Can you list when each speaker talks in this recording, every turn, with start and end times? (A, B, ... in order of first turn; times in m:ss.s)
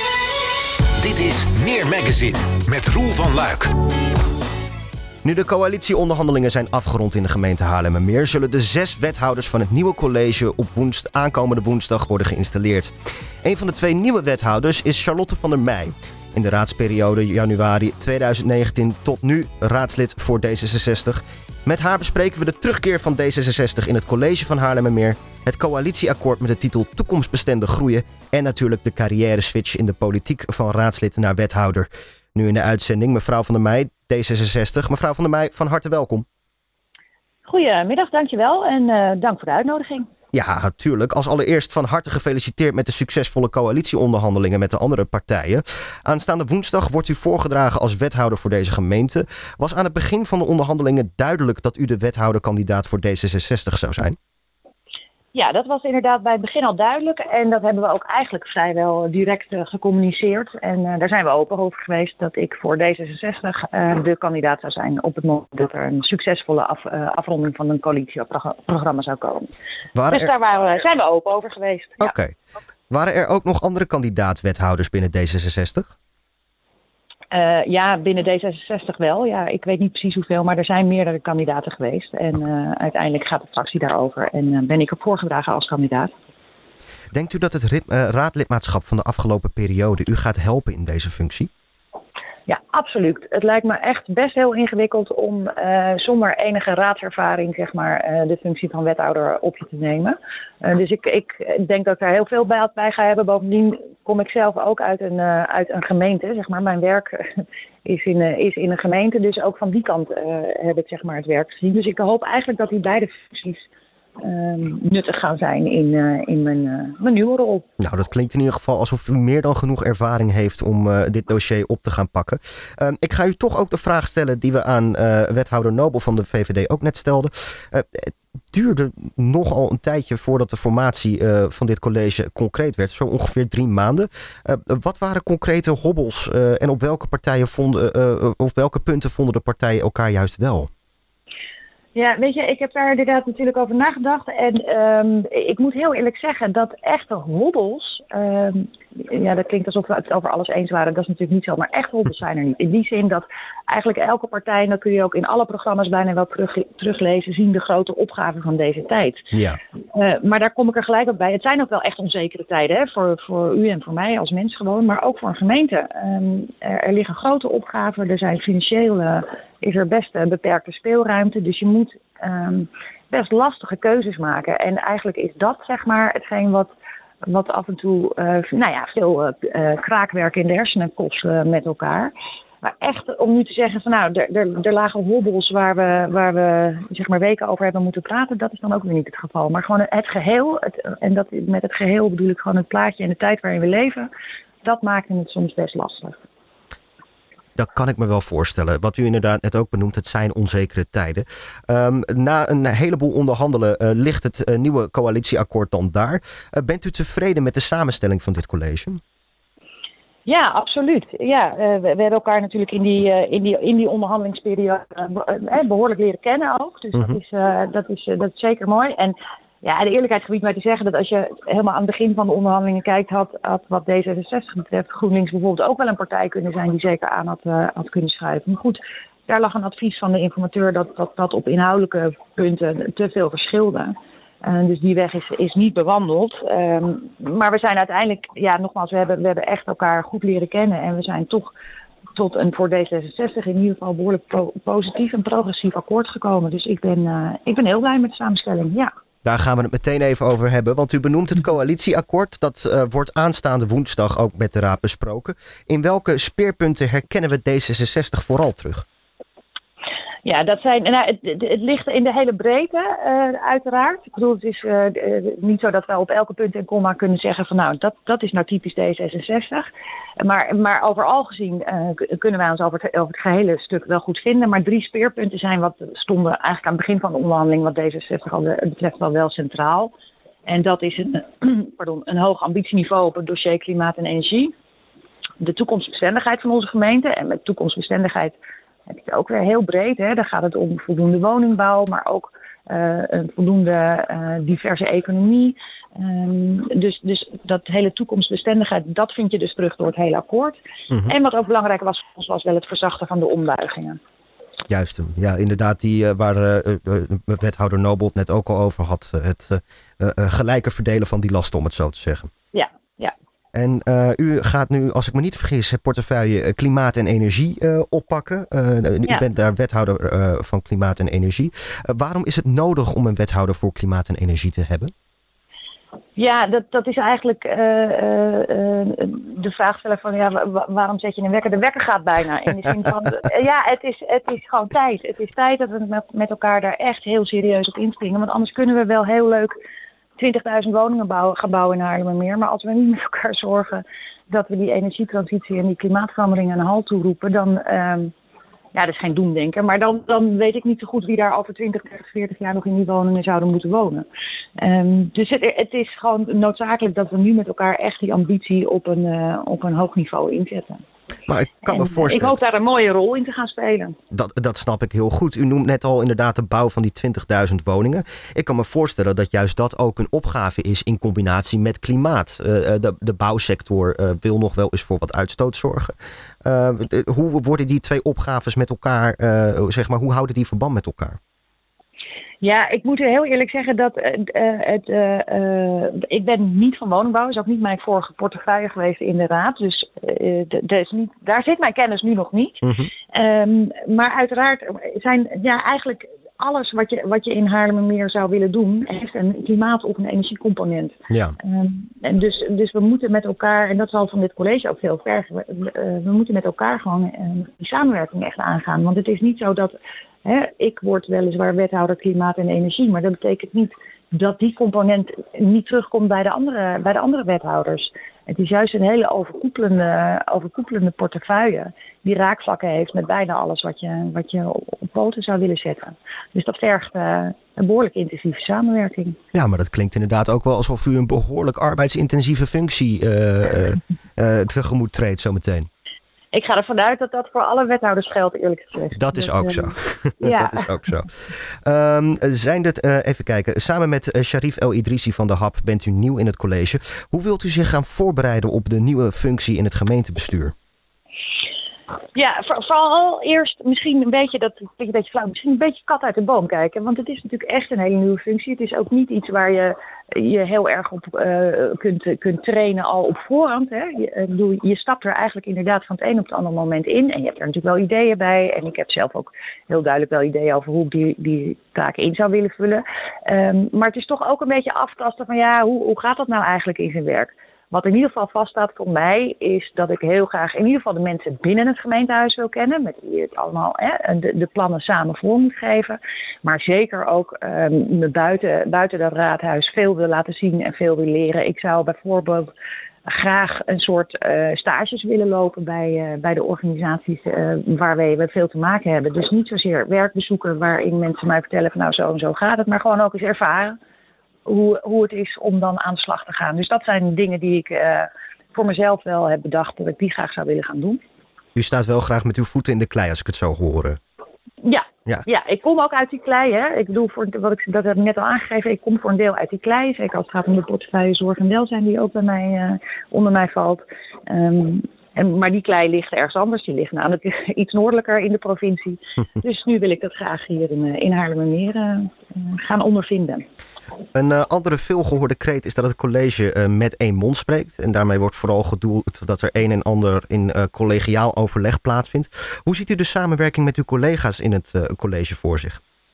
0:01.0-0:03.7 A
0:05.2-0:12.9 B
0:13.4-0:36.3 B
0:37.4-0:40.1 C
0:40.3-0:54.2 B
0:55.3-1:09.5 C
1:10.0-1:10.3 B
1:10.1-1:12.1 C
1:12.0-1:12.4 B
1:12.9-1:15.9 B
1:17.3-1:26.1 C
1:27.1-1:31.5 B
1:32.5-1:53.7 C
1:54.2-1:57.6 C
1:57.8-2:20.7 B
2:22.0-2:39.3 C
2:39.3-2:39.6 B
2:39.9-2:56.7 C
2:57.2-3:14.1 C
3:14.6-3:16.2 C
3:17.6-3:29.0 B
3:30.3-4:01.5 C
4:02.2-4:08.9 C
4:09.2-4:18.8 B
4:20.2-4:29.7 C
4:30.2-4:39.9 C
4:40.5-4:44.5 C
4:45.4-4:48.4 C
4:48.9-5:04.0 C
5:04.7-5:12.3 B
5:12.5-5:13.2 C
5:13.5-5:24.9 B
5:26.2-5:39.5 C
5:40.2-5:48.1 C
5:48.7-5:54.1 C
5:54.6-6:00.8 C
6:01.3-6:02.4 B
6:01.7-6:04.0 C
6:04.1-6:15.9 B
6:16.4-6:21.2 B
6:22.4-7:09.2 C
6:32.6-6:32.9 B
6:41.1-6:41.4 B
7:09.3-7:15.7 B
7:16.3-7:20.7 C
7:19.0-7:21.1 B
7:21.6-7:30.5 B
7:32.1-8:12.5 C
8:13.1-8:23.8 C
8:24.4-8:31.0 C
8:31.6-8:34.0 B
8:34.6-8:53.4 C
8:54.1-9:05.8 B